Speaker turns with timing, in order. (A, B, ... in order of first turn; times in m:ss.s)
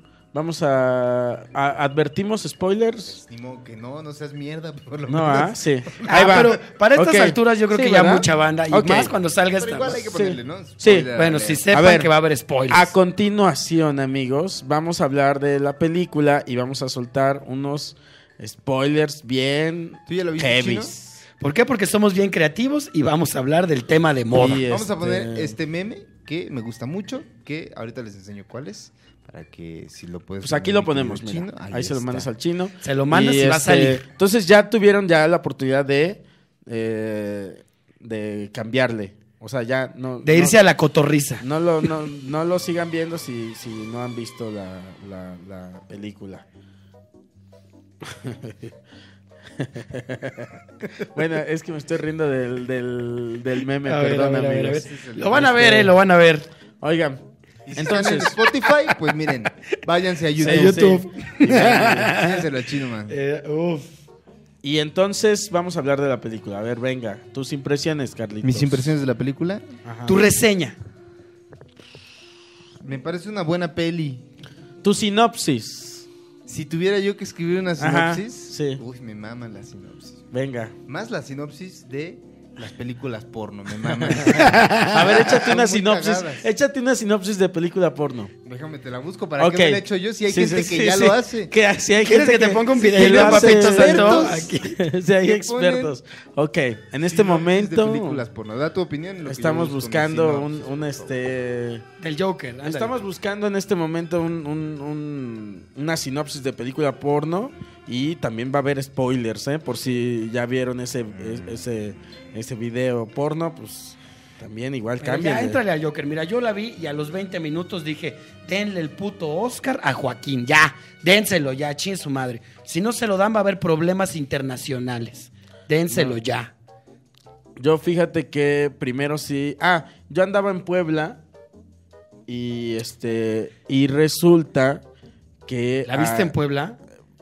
0:00.3-0:03.2 A
0:03.0-0:06.4 B
0:05.1-0:09.1 A
0:06.0-0:10.0 C
0:09.6-0:11.7 B
0:10.1-0:11.1 A
0:11.1-0:12.9 C
0:11.7-0:12.1 A
0:12.7-0:21.2 A
0:20.1-0:20.9 B
0:21.4-0:24.6 C
0:24.3-0:25.6 A
0:24.6-0:32.3 B
0:30.4-0:40.6 A
0:32.8-0:34.0 C
0:40.2-0:41.4 C
0:41.4-0:46.4 A
0:48.0-0:48.7 A
0:49.6-0:55.9 A
0:53.8-0:56.5 C
0:54.7-0:55.5 B
0:56.8-0:57.2 A
0:57.6-1:01.0 B
0:57.7-0:58.4 A
1:00.4-1:02.2 A
1:00.4-1:02.4 C
1:01.8-1:03.1 B
1:03.1-1:03.9 C
1:04.6-1:08.9 A
1:08.4-1:09.6 B
1:09.8-1:10.3 A
1:10.0-1:10.8 C
1:12.8-1:14.2 B
1:14.8-1:16.1 A
1:16.4-1:20.2 B
1:17.8-1:18.8 A
1:20.3-1:20.7 A
1:20.9-1:26.4 B
1:24.1-1:28.3 A
1:24.3-1:25.2 C
1:28.4-1:31.5 B
1:29.4-1:38.2 A
1:32.0-1:34.8 C
1:32.9-1:34.5 B
1:35.2-1:36.0 B
1:37.0-1:41.1 B
1:39.2-1:41.8 A
1:42.0-1:43.0 C
1:42.6-1:55.6 A
1:51.1-1:51.5 B
1:55.0-2:06.5 C
2:05.9-2:06.2 A
2:07.6-2:11.2 A
2:12.3-2:14.8 A
2:15.4-2:16.3 A
2:15.8-2:16.8 C